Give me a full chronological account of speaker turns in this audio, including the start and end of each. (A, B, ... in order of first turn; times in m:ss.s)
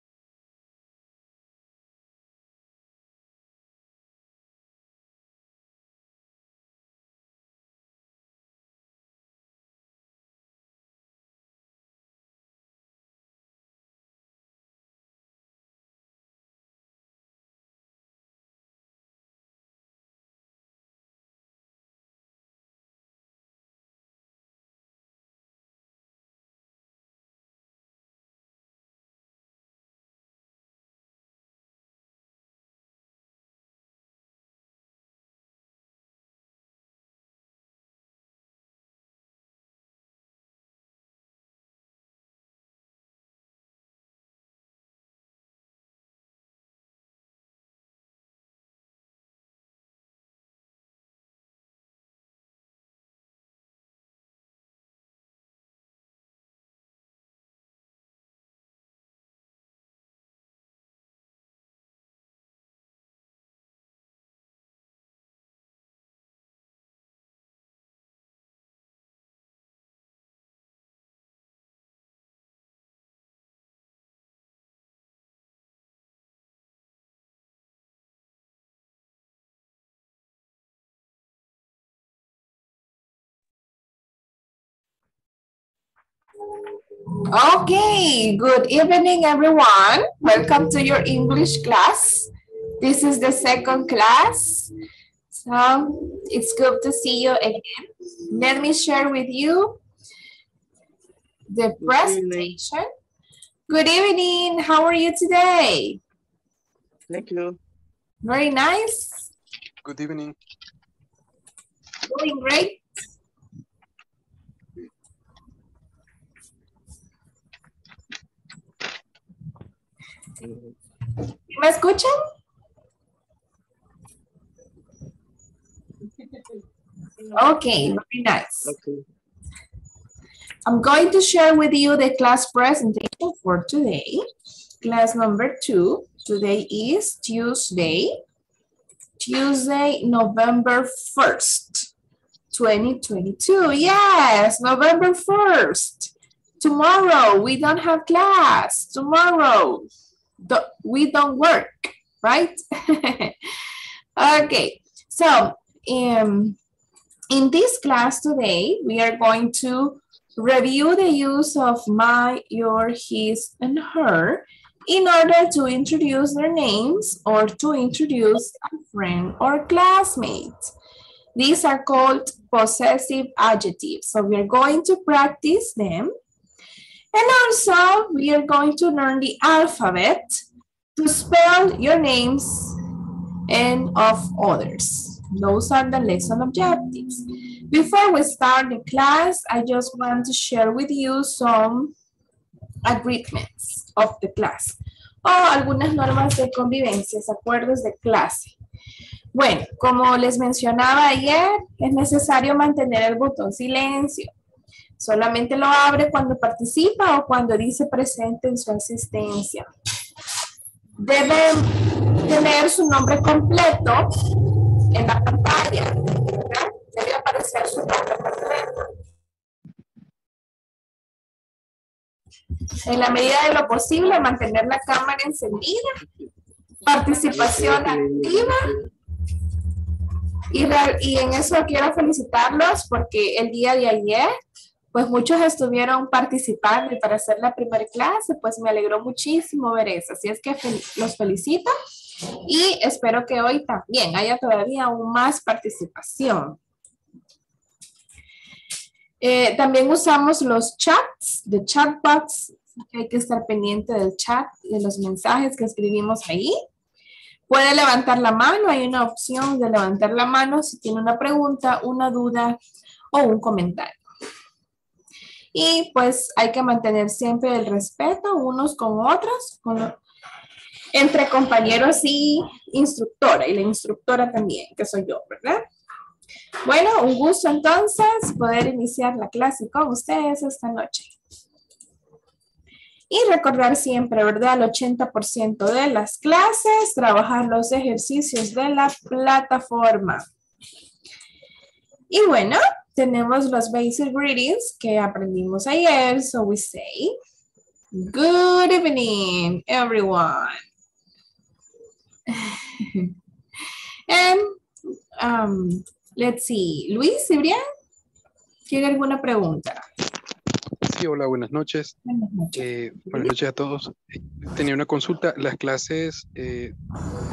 1:27.3-1:34.7 A
1:35.3-1:39.8 A
1:41.5-1:42.9 A
1:41.8-1:42.5 B
1:43.7-1:46.0 A
1:47.1-1:47.6 B
1:48.2-1:49.3 A
1:49.8-1:50.4 C
1:52.1-1:52.8 A
2:00.4-2:00.7 B
2:01.5-2:02.2 A
2:07.4-2:08.7 A
2:08.7-2:09.0 B
2:10.7-2:14.2 A
2:14.8-2:18.2 A
2:19.2-2:21.9 A
2:22.5-2:29.9 A
2:30.4-2:33.4 A
2:34.2-2:36.6 A
2:37.3-2:50.7 A
2:51.4-2:56.1 A
2:57.1-3:00.4 A
3:01.0-3:02.8 A
3:03.5-3:11.9 A
3:12.8-3:18.6 A
3:19.3-3:24.3 A
3:25.0-3:29.7 A
3:31.0-3:34.1 A
3:34.9-3:38.7 A
3:42.9-3:46.0 A
3:46.8-3:48.8 A
3:47.3-3:48.9 B
3:50.5-3:54.3 A
3:54.9-4:01.7 A
4:02.5-4:06.6 A
4:09.2-4:16.6 A
4:17.5-4:22.6 A
4:23.1-4:24.0 A
4:25.6-4:30.0 A
4:30.9-4:35.6 A
4:36.6-4:41.1 A
4:43.1-4:50.2 A
4:52.1-4:57.2 A
4:57.9-5:00.6 A
5:02.3-5:03.1 A
5:04.1-5:04.6 A
5:05.2-5:07.6 A
5:08.7-5:09.8 A
5:10.9-5:12.0 C
5:12.1-5:13.3 A
5:12.5-5:16.8 C